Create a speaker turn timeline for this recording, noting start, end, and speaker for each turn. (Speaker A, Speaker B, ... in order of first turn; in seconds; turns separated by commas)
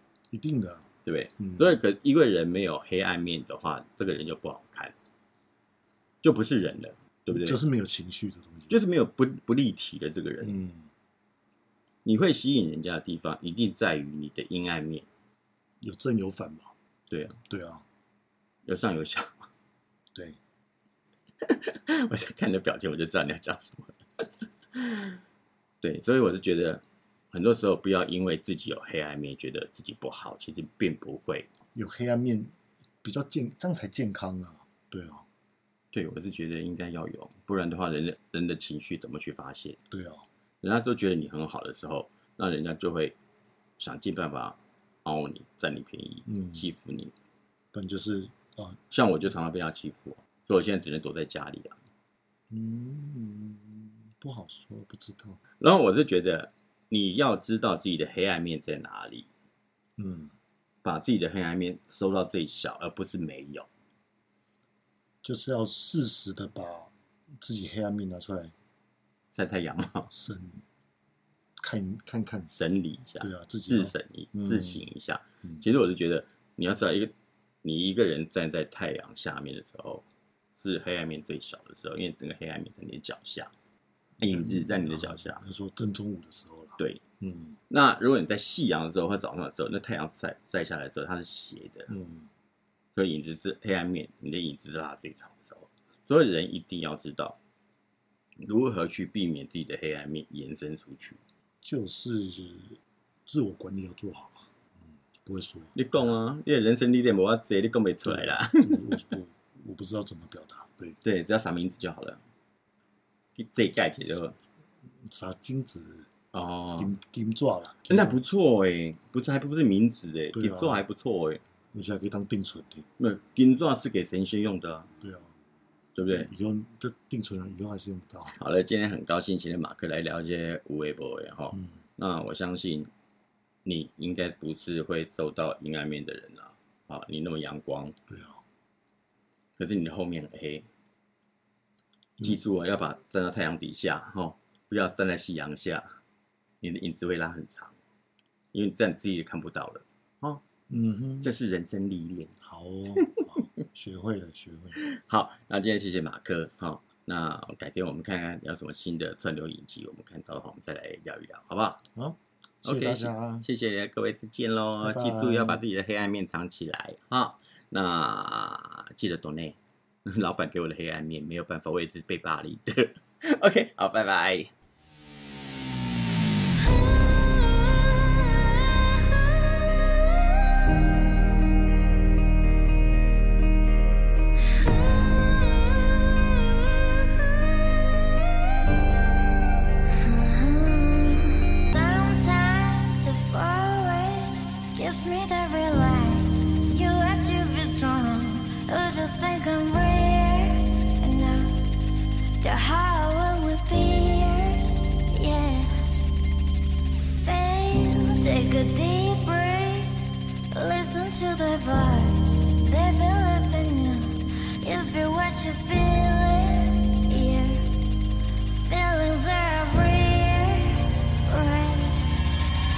Speaker A: 0.3-0.9, Speaker B: 1.0-4.9, Speaker A: 1.4-1.7, Speaker B: 6.2-7.6, Speaker A: 7.3-8.8, Speaker B: 8.7-10.5, Speaker A: 10.4-10.9, Speaker B: 12.0-15.1, Speaker A: 15.8-16.7, Speaker B: 17.1-17.4, Speaker A: 17.5-17.8, Speaker B: 18.6-19.5, Speaker A: 20.1-20.4, Speaker B: 21.4-25.2, Speaker B: 25.8-31.5, Speaker A: 31.7-35.2, Speaker B: 35.9-39.8, Speaker A: 39.9-40.2, Speaker B: 40.6-43.1, Speaker B: 43.8-47.1, Speaker A: 46.2-46.7, Speaker A: 47.7-48.8, Speaker B: 48.9-51.8, Speaker A: 52.5-55.4, Speaker B: 55.6-59.3, Speaker A: 60.0-60.3, Speaker B: 60.8-63.7, Speaker A: 65.2-68.5, Speaker B: 69.3-70.1, Speaker A: 70.1-70.6, Speaker A: 71.6-72.5, Speaker B: 72.5-77.1, Speaker A: 73.2-74.8, Speaker B: 77.6-80.0, Speaker B: 80.6-83.5, Speaker A: 84.2-87.6, Speaker B: 84.2-85.4, Speaker B: 86.8-87.0, Speaker B: 87.7-91.9, Speaker A: 91.9-92.3, Speaker B: 92.9-97.4, Speaker B: 98.4-101.2, Speaker A: 101.6-104.5, Speaker A: 105.2-106.1, Speaker B: 105.7-108.8, Speaker A: 108.0-111.0, Speaker B: 111.0-112.2, Speaker B: 113.3-114.3, Speaker A: 115.0-116.1, Speaker B: 116.3-116.9, Speaker A: 116.8-118.2, Speaker B: 117.9-121.4, Speaker A: 120.3-120.8, Speaker A: 121.7-122.8, Speaker B: 123.0-124.9, Speaker A: 125.0-125.3, Speaker B: 125.9-126.3, Speaker A: 126.1-128.4, Speaker B: 128.3-132.9, Speaker A: 131.5-131.8, Speaker B: 133.6-137.9, Speaker A: 138.1-138.4, Speaker B: 139.6-140.7, Speaker B: 142.2-145.9, Speaker B: 146.6-147.7, Speaker B: 148.5-150.4, Speaker A: 150.7-151.3, Speaker B: 151.2-152.3, Speaker A: 152.4-154.8, Speaker B: 152.9-153.4, Speaker B: 154.8-161.8, Speaker A: 161.9-163.5, Speaker B: 162.6-174.5, Speaker A: 164.8-165.6, Speaker C: 189.9-201.7, Speaker C: 202.4-205.9, Speaker C: 207.2-217.7, Speaker C: 218.5-222.2